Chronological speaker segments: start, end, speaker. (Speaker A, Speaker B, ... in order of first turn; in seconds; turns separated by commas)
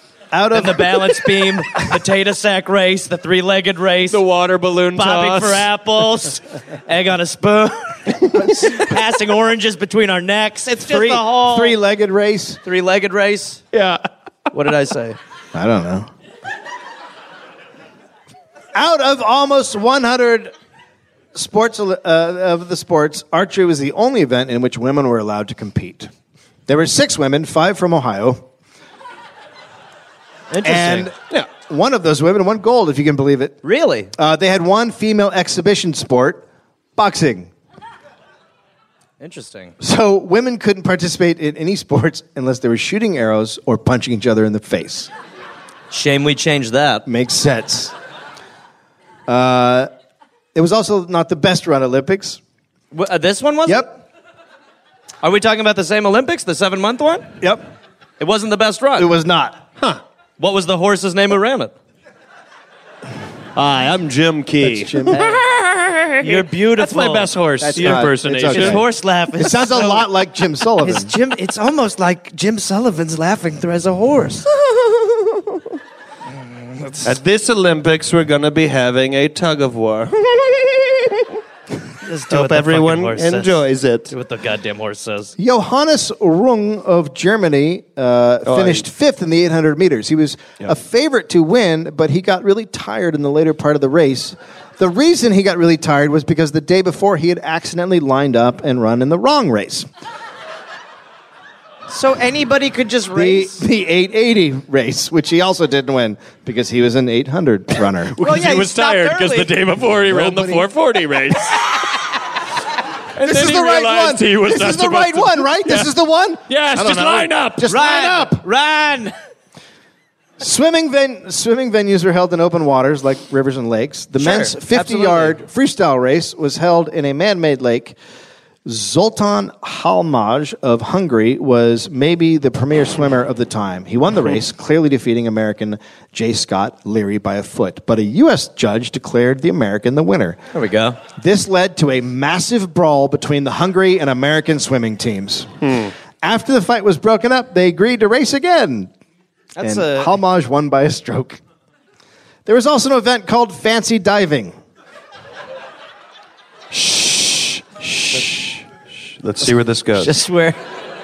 Speaker A: 0.3-1.2, Speaker B: 0.5-4.2, Speaker C: 4.1-5.7, Speaker B: 5.0-11.8, Speaker A: 10.9-12.6, Speaker B: 12.6-13.6, Speaker C: 13.7-14.1, Speaker B: 14.5-15.2, Speaker A: 15.5-16.1, Speaker A: 18.7-20.5, Speaker A: 21.3-26.1, Speaker A: 26.7-28.4, Speaker B: 30.5-31.1, Speaker A: 30.6-33.6, Speaker B: 33.6-34.1, Speaker A: 34.1-36.5, Speaker A: 37.0-37.5, Speaker B: 39.2-39.7, Speaker A: 39.8-45.1, Speaker B: 45.9-47.0, Speaker A: 47.0-47.9, Speaker A: 49.3-49.9, Speaker A: 50.5-52.4, Speaker B: 52.9-54.0, Speaker B: 55.2-57.3, Speaker B: 58.2-59.1, Speaker A: 59.0-59.6, Speaker B: 60.4-61.7, Speaker C: 63.5-68.8, Speaker A: 64.6-65.3, Speaker B: 65.1-65.4, Speaker B: 66.2-70.0, Speaker A: 67.6-71.1, Speaker B: 70.8-74.5, Speaker B: 76.4-77.1, Speaker C: 77.0-81.4, Speaker B: 82.0-85.3, Speaker C: 82.3-84.1, Speaker A: 85.4-99.9, Speaker C: 88.5-88.8, Speaker B: 101.9-103.6, Speaker A: 103.1-108.2, Speaker C: 108.2-111.9, Speaker B: 108.2-109.5, Speaker A: 110.1-110.7, Speaker C: 113.1-115.9, Speaker A: 113.2-118.4, Speaker C: 116.5-117.7, Speaker B: 117.7-119.1, Speaker A: 120.4-128.0, Speaker B: 124.2-125.4, Speaker A: 128.6-140.4, Speaker B: 140.5-141.0, Speaker A: 141.2-145.6, Speaker C: 145.6-145.9, Speaker A: 146.2-148.9, Speaker B: 149.6-150.1, Speaker A: 149.6-151.4, Speaker A: 152.4-154.6, Speaker C: 156.7-158.6, Speaker C: 159.2-160.1, Speaker B: 159.9-160.6